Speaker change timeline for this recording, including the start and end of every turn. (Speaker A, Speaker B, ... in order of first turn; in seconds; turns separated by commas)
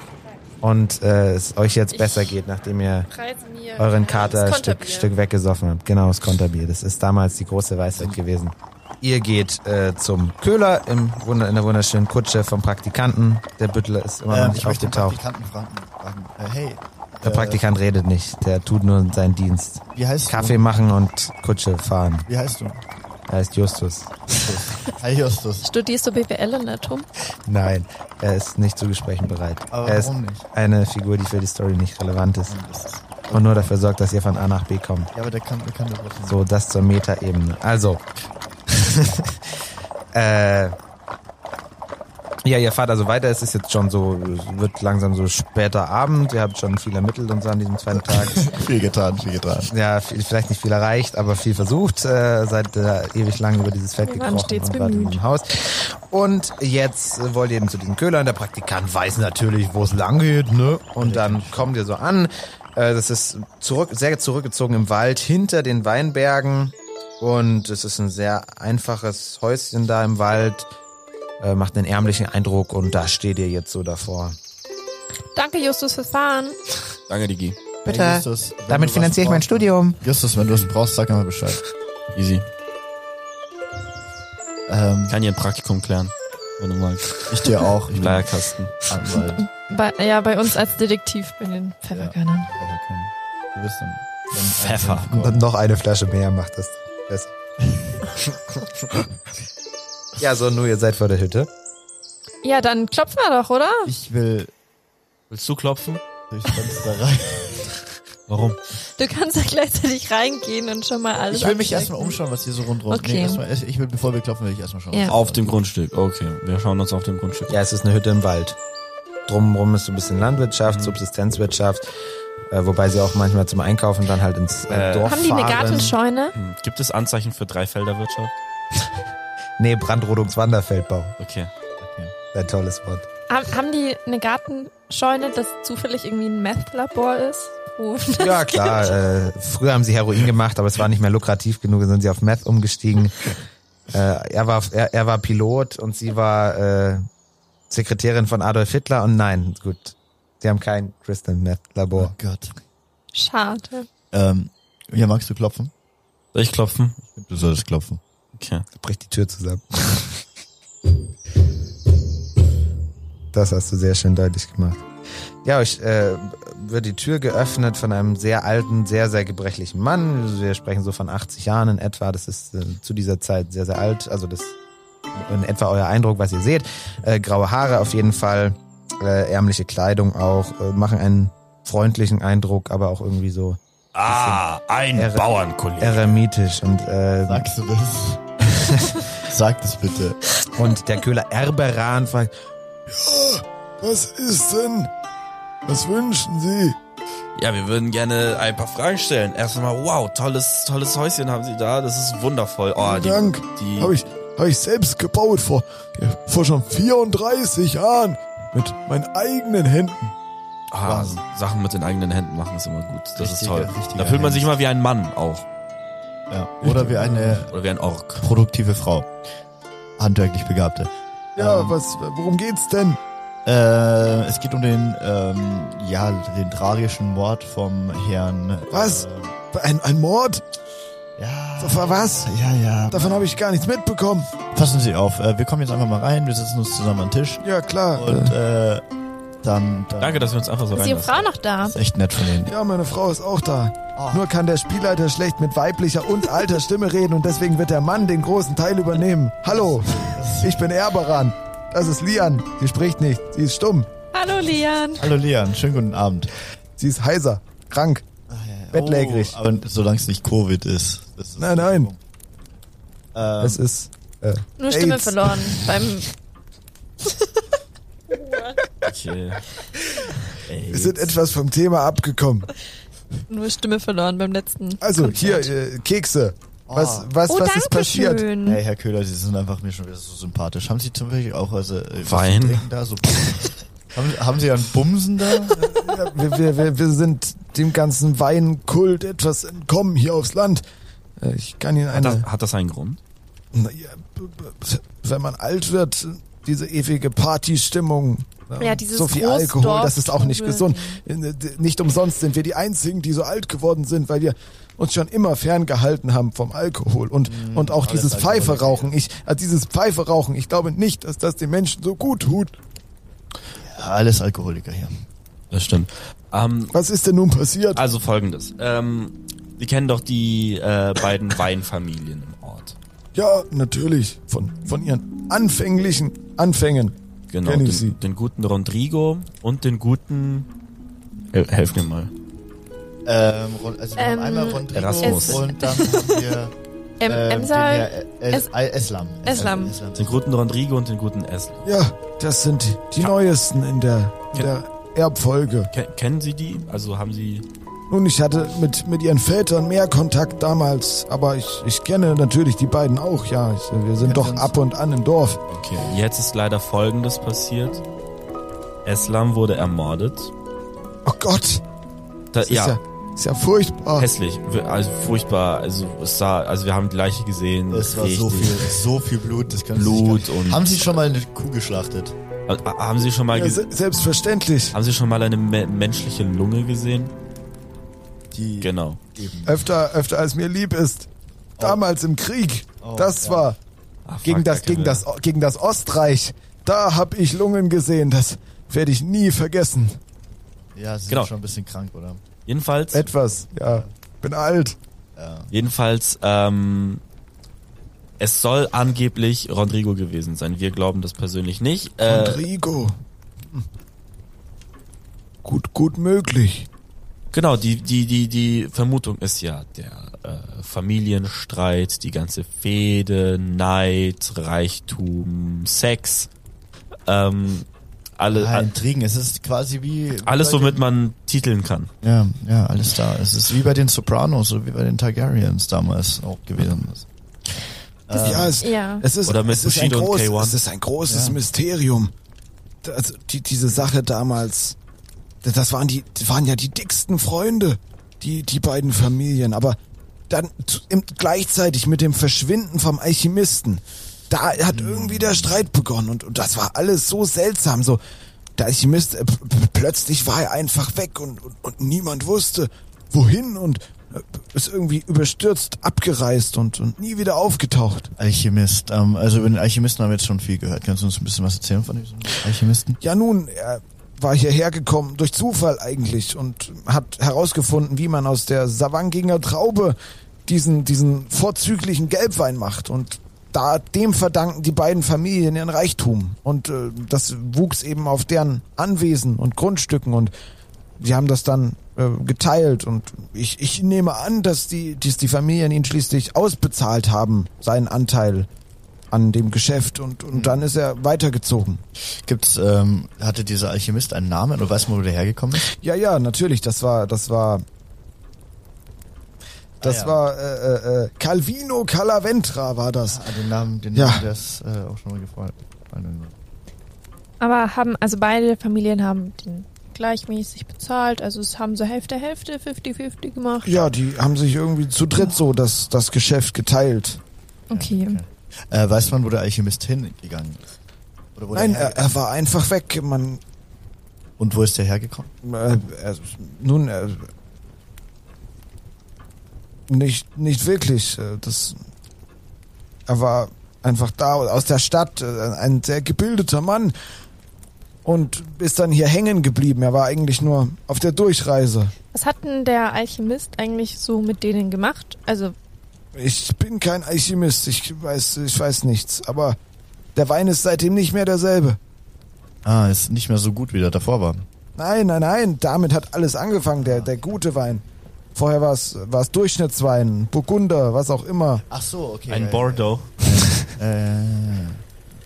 Speaker A: 0.6-3.1, Speaker B: 1.9-2.3, Speaker B: 3.1-5.1, Speaker A: 3.8-15.2, Speaker C: 7.9-8.2, Speaker C: 14.3-17.6, Speaker A: 17.2-22.3, Speaker C: 19.9-20.6, Speaker C: 22.2-22.8, Speaker A: 23.3-24.4, Speaker C: 24.3-25.7, Speaker B: 25.6-27.1, Speaker A: 27.4-32.6, Speaker C: 29.2-30.4, Speaker C: 32.5-33.4, Speaker A: 33.3-35.1, Speaker C: 35.1-36.4, Speaker A: 36.2-38.0, Speaker A: 38.7-39.6, Speaker A: 40.1-40.8, Speaker A: 42.4-48.5, Speaker C: 48.0-49.7, Speaker A: 49.7-70.7, Speaker B: 54.0-55.2, Speaker C: 61.0-61.7, Speaker A: 71.4-74.4, Speaker B: 75.3-76.6, Speaker D: 77.1-77.6, Speaker A: 77.8-80.0, Speaker C: 77.8-81.6, Speaker D: 82.1-82.5, Speaker C: 84.7-85.2, Speaker D: 85.1-89.2, Speaker C: 87.3-89.5, Speaker B: 89.4-92.5, Speaker C: 91.9-95.4, Speaker D: 94.6-95.1, Speaker A: 95.2-97.3, Speaker A: 98.1-99.0, Speaker A: 100.2-101.5, Speaker B: 102.4-103.9, Speaker C: 103.8-104.5, Speaker D: 105.3-106.0, Speaker C: 106.3-107.8, Speaker D: 108.3-108.6, Speaker B: 108.9-112.2, Speaker C: 111.3-115.5, Speaker B: 112.9-113.4, Speaker D: 115.1-117.6, Speaker A: 117.5-118.6, Speaker A: 119.3-121.9, Speaker D: 120.7-121.0, Speaker A: 122.5-126.0, Speaker D: 124.7-125.1, Speaker B: 125.1-126.3, Speaker D: 126.3-128.3, Speaker A: 129.6-131.2, Speaker D: 131.2-131.5, Speaker C: 131.8-132.1, Speaker A: 132.3-133.1, Speaker B: 133.3-138.9, Speaker A: 138.2-143.4, Speaker A: 143.9-147.1, Speaker A: 147.7-152.1, Speaker C: 151.9-152.6, Speaker B: 153.1-153.9, Speaker C: 154.1-155.7, Speaker D: 156.3-157.0, Speaker C: 157.1-158.0, Speaker D: 158.3-158.7, Speaker A: 158.8-160.2, Speaker A: 163.3-164.8, Speaker A: 165.4-174.5, Speaker A: 175.2-184.4, Speaker D: 183.9-186.2, Speaker A: 184.9-185.3, Speaker A: 185.8-187.5, Speaker C: 187.3-188.3, Speaker C: 189.2-190.2, Speaker A: 190.5-192.3, Speaker E: 192.9-194.9, Speaker E: 195.7-196.8, Speaker D: 197.3-204.0, Speaker E: 202.8-210.1, Speaker D: 210.7-215.4, Speaker C: 210.8-211.2, Speaker C: 213.2-214.5, Speaker C: 216.3-217.5, Speaker D: 216.7-218.3, Speaker C: 218.2-219.1, Speaker C: 220.0-221.7, Speaker E: 221.3-223.0, Speaker C: 223.4-229.3, Speaker E: 228.7-230.4, Speaker C: 231.2-233.4, Speaker E: 231.6-232.3, Speaker E: 232.9-234.3, Speaker C: 234.5-238.8, Speaker E: 237.4-238.3, Speaker C: 239.4-240.4, Speaker D: 240.0-241.3, Speaker B: 240.7-241.8, Speaker C: 241.6-242.5, Speaker E: 242.4-253.9, Speaker C: 243.9-244.3, Speaker C: 249.5-250.7, Speaker B: 254.1-255.1, Speaker C: 255.0-256.3, Speaker E: 256.8-258.0, Speaker C: 258.3-262.0, Speaker E: 258.7-259.3, Speaker E: 261.4-261.9, Speaker C: 263.1-263.6, Speaker A: 263.4-264.3, Speaker E: 264.3-265.7, Speaker B: 264.6-266.1, Speaker B: 267.0-267.4, Speaker B: 268.1-268.6, Speaker D: 268.8-269.4, Speaker D: 270.4-271.1, Speaker E: 270.7-272.5, Speaker B: 273.3-275.5, Speaker E: 274.8-278.2, Speaker C: 276.7-277.1, Speaker B: 277.3-278.6, Speaker C: 278.4-285.7, Speaker D: 282.0-282.7, Speaker E: 285.6-290.6, Speaker E: 291.2-292.2, Speaker D: 291.9-293.0, Speaker E: 293.5-312.6, Speaker B: 298.6-301.0, Speaker C: 307.3-308.9, Speaker C: 313.6-315.0, Speaker D: 315.5-316.7, Speaker E: 316.7-317.8, Speaker D: 317.7-322.8, Speaker E: 323.1-328.0, Speaker D: 327.3-330.5, Speaker D: 331.3-332.1, Speaker C: 333.1-340.2, Speaker B: 334.0-336.3, Speaker D: 334.7-335.4, Speaker B: 337.0-338.5, Speaker B: 339.2-339.7, Speaker D: 339.9-341.6, Speaker E: 341.6-345.7, Speaker D: 345.7-347.4, Speaker E: 347.9-355.4, Speaker C: 354.0-354.5, Speaker D: 355.5-357.8, Speaker D: 358.8-360.3, Speaker E: 361.1-361.6, Speaker D: 362.3-362.8, Speaker E: 362.4-364.1, Speaker D: 364.0-368.8, Speaker C: 367.7-372.2, Speaker D: 369.7-370.9, Speaker D: 372.5-373.6, Speaker E: 373.3-374.7, Speaker D: 374.7-377.1, Speaker C: 378.3-379.6, Speaker D: 378.6-379.0, Speaker E: 379.4-381.1, Speaker E: 381.6-383.6, Speaker C: 382.8-383.5, Speaker D: 384.1-385.0, Speaker E: 384.2-390.0, Speaker C: 390.7-392.2, Speaker D: 392.5-393.1, Speaker E: 392.9-394.8, Speaker C: 393.6-393.9, Speaker C: 395.2-395.5, Speaker D: 395.5-397.0, Speaker D: 398.2-402.4, Speaker E: 402.1-403.7, Speaker E: 405.4-406.7, Speaker D: 407.3-416.3, Speaker D: 417.1-418.7, Speaker C: 418.3-420.8, Speaker D: 420.2-421.9, Speaker C: 422.0-427.1, Speaker C: 428.1-428.6, Speaker E: 428.1-432.1, Speaker B: 428.6-429.1, Speaker D: 429.2-430.6, Speaker C: 431.1-431.4, Speaker E: 432.8-434.8, Speaker E: 435.4-439.8, Speaker E: 440.3-448.0, Speaker C: 444.6-445.6, Speaker E: 448.6-458.1, Speaker C: 458.2-463.0, Speaker E: 463.0-480.3, Speaker E: 481.0-488.5, Speaker E: 489.1-491.8, Speaker C: 490.3-490.6, Speaker C: 492.0-495.7, Speaker E: 495.7-497.6, Speaker C: 499.8-500.2, Speaker E: 499.8-503.2, Speaker C: 503.1-506.3, Speaker E: 503.9-504.3, Speaker B: 507.4-513.8, Speaker E: 513.6-517.2, Speaker B: 517.7-518.2, Speaker C: 517.7-520.6, Speaker C: 521.4-522.1, Speaker E: 521.5-523.4, Speaker C: 524.4-525.3, Speaker E: 525.4-527.3, Speaker E: 529.9-531.8, Speaker E: 533.1-536.9, Speaker E: 538.0-541.9, Speaker B: 542.1-545.5, Speaker E: 546.1-549.6, Speaker E: 550.1-551.8, Speaker C: 552.6-554.5, Speaker E: 554.8-557.8, Speaker C: 556.8-557.3, Speaker E: 558.4-561.6, Speaker C: 561.7-564.8, Speaker D: 562.3-563.1